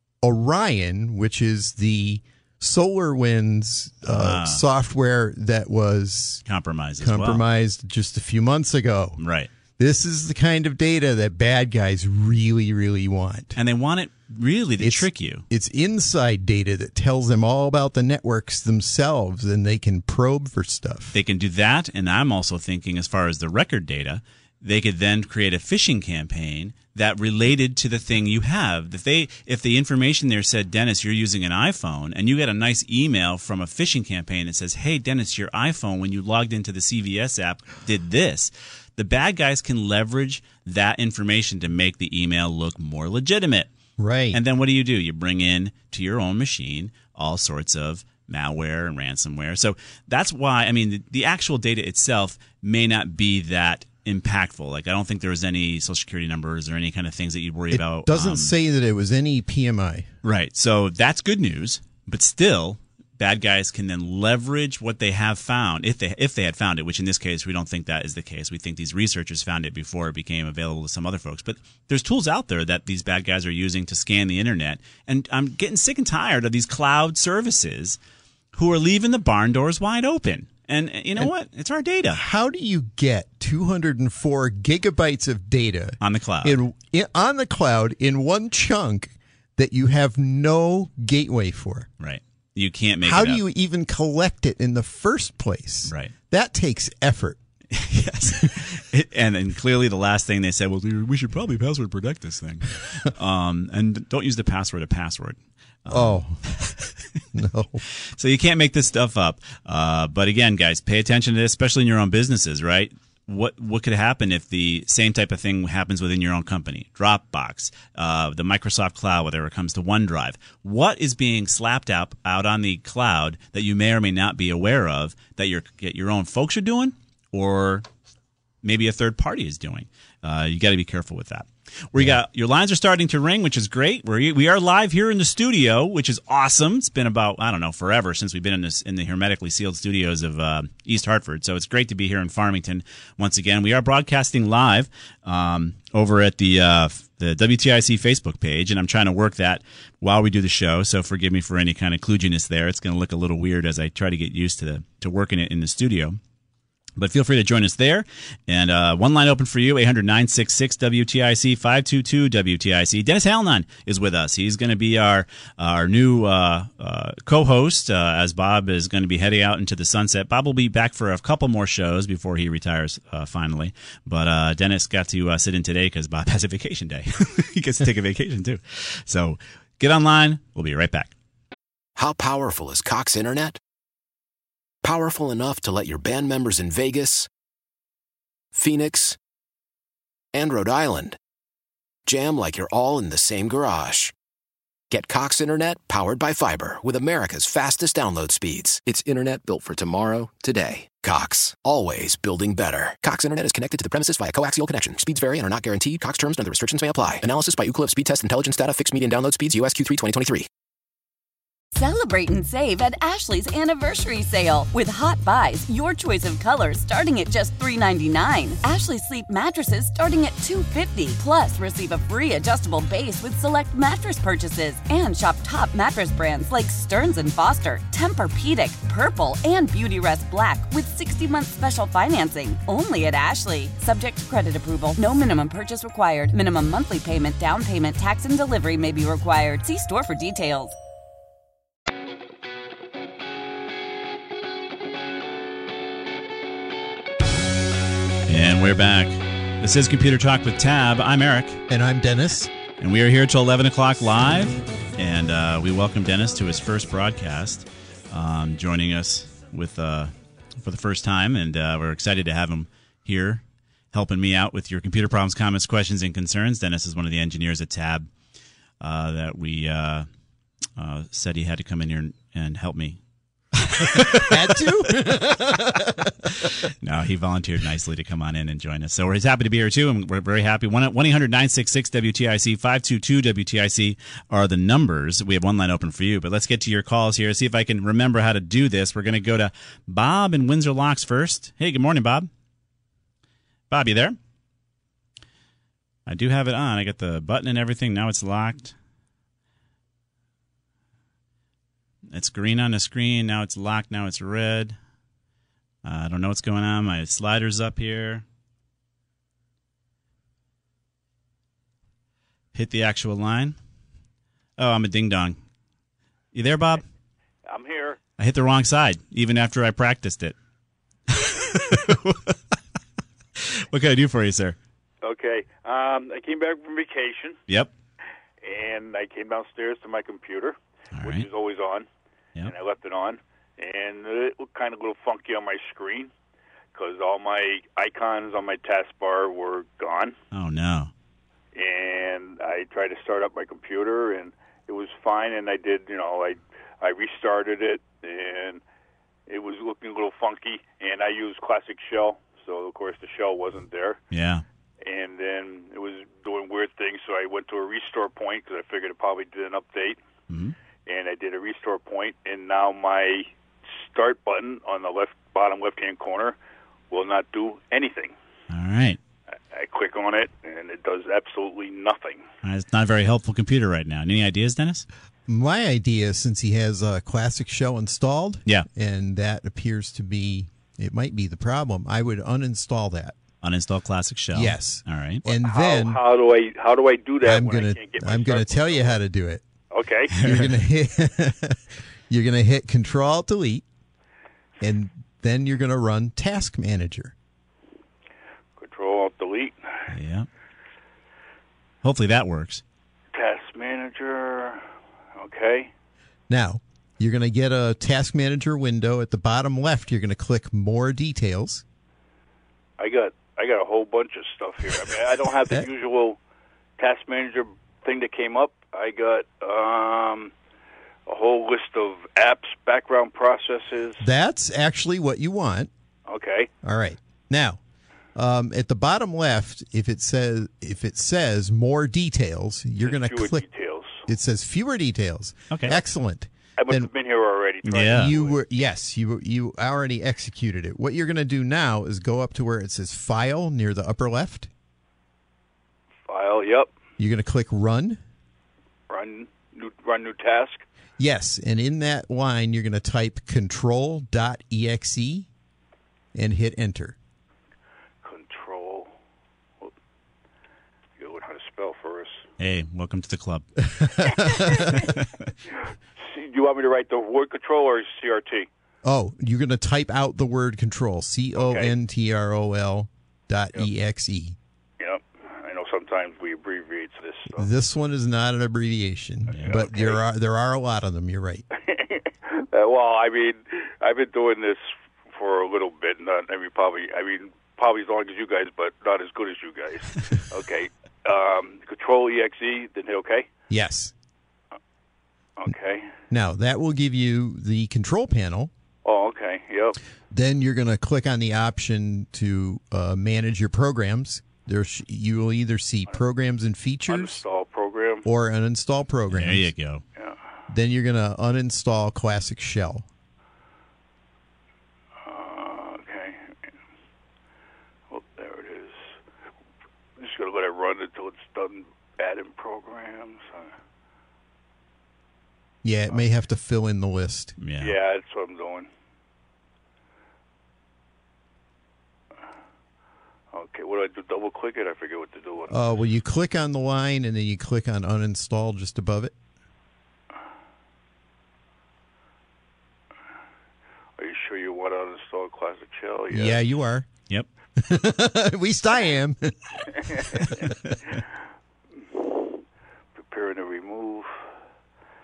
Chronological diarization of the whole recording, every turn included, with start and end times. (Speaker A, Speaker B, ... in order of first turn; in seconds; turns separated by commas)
Speaker A: 0.2-6.4, Speaker B: 4.1-4.6, Speaker B: 6.5-7.4, Speaker A: 7.0-9.2, Speaker B: 9.2-9.5, Speaker A: 9.8-13.6, Speaker B: 13.6-15.4, Speaker A: 14.8-21.2, Speaker B: 21.1-43.7, Speaker A: 44.0-44.4, Speaker B: 44.3-58.5, Speaker A: 57.7-60.1, Speaker B: 60.2-78.0, Speaker B: 78.5-82.2, Speaker A: 82.1-91.9, Speaker B: 86.0-86.6, Speaker B: 92.0-93.4, Speaker A: 93.0-97.4, Speaker B: 95.9-96.1, Speaker B: 97.7-106.9, Speaker A: 105.9-106.5, Speaker A: 107.3-107.8, Speaker B: 108.1-127.9, Speaker B: 128.6-156.2, Speaker B: 157.0-181.1, Speaker C: 182.0-183.6, Speaker C: 184.8-187.3, Speaker C: 188.5-189.2, Speaker C: 190.3-191.2, Speaker C: 192.1-194.1, Speaker C: 194.9-210.5, Speaker D: 211.7-240.8, Speaker B: 248.3-251.6, Speaker A: 251.7-252.5, Speaker B: 252.8-263.4, Speaker B: 263.9-268.1, Speaker B: 268.8-270.1, Speaker B: 270.8-273.0, Speaker B: 273.6-274.7, Speaker A: 273.9-276.5, Speaker B: 276.4-292.3, Speaker B: 293.7-294.2, Speaker B: 296.1-298.8, Speaker B: 302.1-304.8, Speaker B: 305.8-308.2, Speaker B: 312.5-313.6, Speaker B: 314.6-315.4, Speaker B: 316.3-316.8, Speaker E: 317.5-318.0, Speaker B: 318.2-320.4, Speaker B: 321.1-322.4, Speaker B: 323.4-324.6, Speaker E: 325.0-327.4, Speaker E: 328.4-331.9, Speaker B: 330.9-331.3, Speaker E: 332.4-336.1, Speaker E: 336.7-340.2, Speaker B: 340.3-340.9, Speaker E: 341.6-348.6, Speaker E: 349.3-354.0, Speaker B: 354.1-354.4, Speaker E: 354.8-360.0, Speaker B: 360.3-360.6, Speaker E: 360.9-366.4, Speaker E: 366.9-368.1, Speaker B: 368.5-369.0, Speaker E: 369.5-372.2, Speaker B: 372.4-374.9, Speaker A: 375.3-383.2, Speaker B: 383.4-385.2, Speaker A: 384.3-386.0, Speaker E: 385.3-389.0, Speaker A: 387.2-389.4, Speaker E: 389.7-390.2, Speaker B: 390.2-390.6, Speaker A: 390.2-393.6, Speaker A: 394.6-397.1, Speaker E: 398.6-399.6, Speaker B: 399.9-400.3, Speaker B: 401.8-402.6, Speaker E: 403.1-405.7, Speaker A: 406.3-411.6, Speaker E: 412.8-416.2, Speaker E: 416.8-420.3, Speaker E: 421.1-424.0, Speaker A: 424.0-425.7, Speaker E: 426.1-426.5, Speaker A: 426.6-427.6, Speaker A: 428.1-433.4, Speaker E: 432.8-434.0, Speaker A: 434.0-436.9, Speaker B: 435.5-435.8, Speaker E: 436.6-438.4, Speaker B: 437.6-438.1, Speaker A: 437.9-444.5, Speaker E: 446.1-446.7, Speaker A: 447.0-448.0, Speaker E: 448.9-450.6, Speaker A: 451.0-455.3, Speaker A: 456.1-457.0, Speaker E: 458.0-458.9, Speaker E: 461.0-462.3, Speaker B: 462.4-463.5, Speaker A: 463.8-464.9, Speaker E: 464.3-464.7, Speaker B: 464.7-465.1, Speaker E: 466.0-468.5, Speaker A: 468.8-474.4, Speaker E: 471.4-471.7, Speaker E: 474.8-477.5, Speaker A: 477.4-481.4, Speaker B: 479.3-479.6, Speaker E: 479.4-480.0, Speaker E: 481.5-493.3, Speaker A: 493.5-493.9, Speaker E: 495.4-495.9, Speaker A: 496.1-498.5, Speaker E: 498.9-499.8, Speaker A: 500.1-507.2, Speaker E: 506.9-508.1, Speaker A: 508.0-509.5, Speaker B: 509.1-509.8, Speaker A: 510.5-512.9, Speaker E: 515.0-516.4, Speaker E: 517.9-519.0, Speaker E: 520.0-523.5, Speaker A: 525.6-527.4, Speaker B: 527.4-527.8, Speaker E: 527.6-528.7, Speaker E: 533.3-535.6, Speaker A: 535.5-539.1, Speaker E: 544.0-546.4, Speaker A: 546.1-546.9, Speaker A: 547.6-549.5, Speaker E: 551.9-552.4, Speaker E: 553.0-554.1